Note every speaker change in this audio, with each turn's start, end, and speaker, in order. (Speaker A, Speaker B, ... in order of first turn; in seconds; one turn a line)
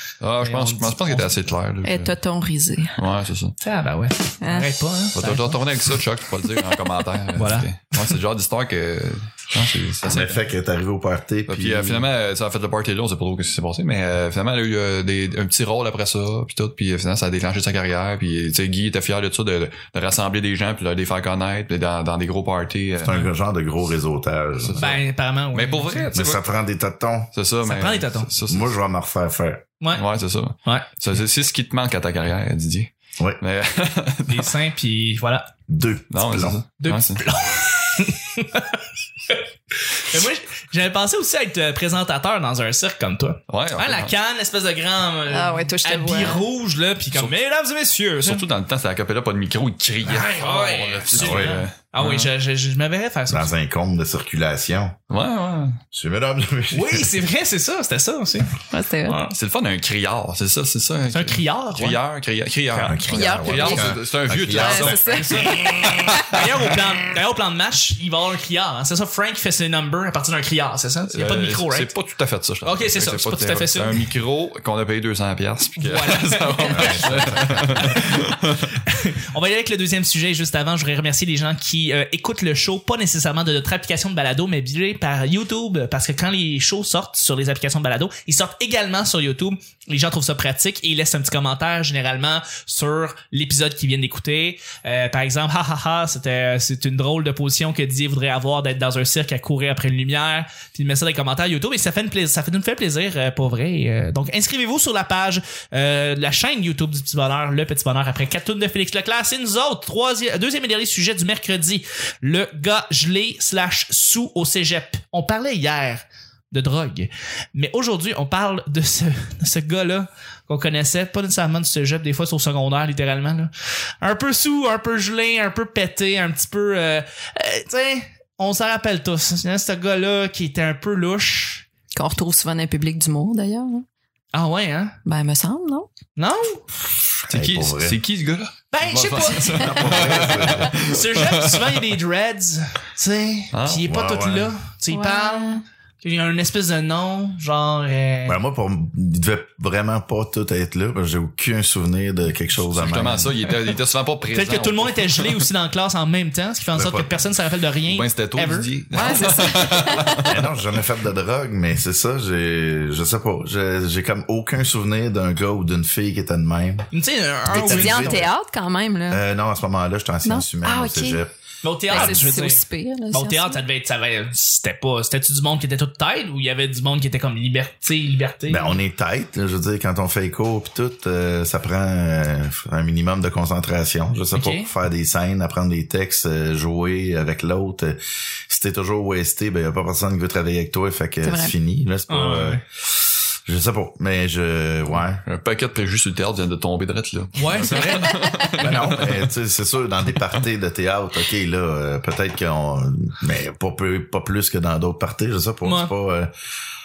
Speaker A: 0.2-2.1
Speaker B: 0.4-1.5
Speaker C: 1.8-3.0
Speaker A: 3.0-3.6
Speaker B: 3.6-5.6
Speaker C: 4.4-4.7
Speaker A: 5.1-10.4
Speaker B: 7.3-8.2
Speaker D: 10.0-12.1
Speaker A: 11.5-23.2
Speaker D: 23.0-25.0
Speaker A: 24.6-24.9
Speaker B: 24.8-26.1
Speaker A: 25.5-26.4
Speaker D: 26.1-27.3
Speaker A: 27.3-28.7
Speaker B: 27.6-28.3
Speaker D: 28.5-29.6
Speaker A: 29.9-34.5
Speaker B: 34.3-35.5
Speaker D: 35.7-36.6
Speaker A: 36.1-37.4
Speaker B: 36.8-39.4
Speaker B: 40.0-48.5
Speaker A: 43.5-44.1
Speaker C: 45.3-46.4
Speaker A: 48.2-52.3
Speaker B: 50.0-53.5
Speaker D: 51.1-51.6
Speaker D: 53.3-55.0
Speaker A: 55.1-55.8
Speaker D: 55.9-57.1
Speaker B: 56.7-59.3
Speaker C: 58.7-59.2
Speaker A: 59.3-65.2
Speaker B: 61.1-62.0
Speaker B: 62.7-63.0
Speaker D: 62.9-65.6
Speaker C: 63.0-66.5
Speaker B: 64.6-71.9
Speaker A: 71.1-78.7
Speaker B: 72.6-74.1
Speaker B: 75.8-78.3
Speaker D: 76.7-78.0
Speaker B: 78.9-131.7
Speaker C: 131.9-133.8
Speaker B: 134.3-135.0
Speaker C: 135.0-135.9
Speaker B: 136.2-136.6
Speaker D: 136.9-138.0
Speaker A: 137.3-141.8
Speaker B: 138.7-148.4
Speaker D: 139.4-140.8
Speaker A: 143.5-143.8
Speaker D: 143.8-144.6
Speaker C: 144.9-145.6
Speaker D: 148.2-153.3
Speaker A: 152.6-155.3
Speaker B: 154.3-159.3
Speaker D: 156.7-157.3
Speaker A: 157.9-160.3
Speaker C: 158.9-160.4
Speaker D: 160.2-166.9
Speaker B: 166.9-168.3
Speaker D: 167.5-168.3
Speaker C: 167.5-169.2
Speaker D: 169.1-171.3
Speaker C: 170.2-171.2
Speaker B: 171.6-178.8
Speaker D: 171.9-172.4
Speaker C: 171.9-173.6
Speaker D: 178.5-195.2
Speaker B: 184.3-184.7
Speaker C: 191.2-191.5
Speaker B: 192.1-192.6
Speaker A: 194.9-199.2
Speaker B: 197.3-198.2
Speaker C: 198.1-198.5
Speaker D: 198.6-206.3
Speaker B: 205.6-205.9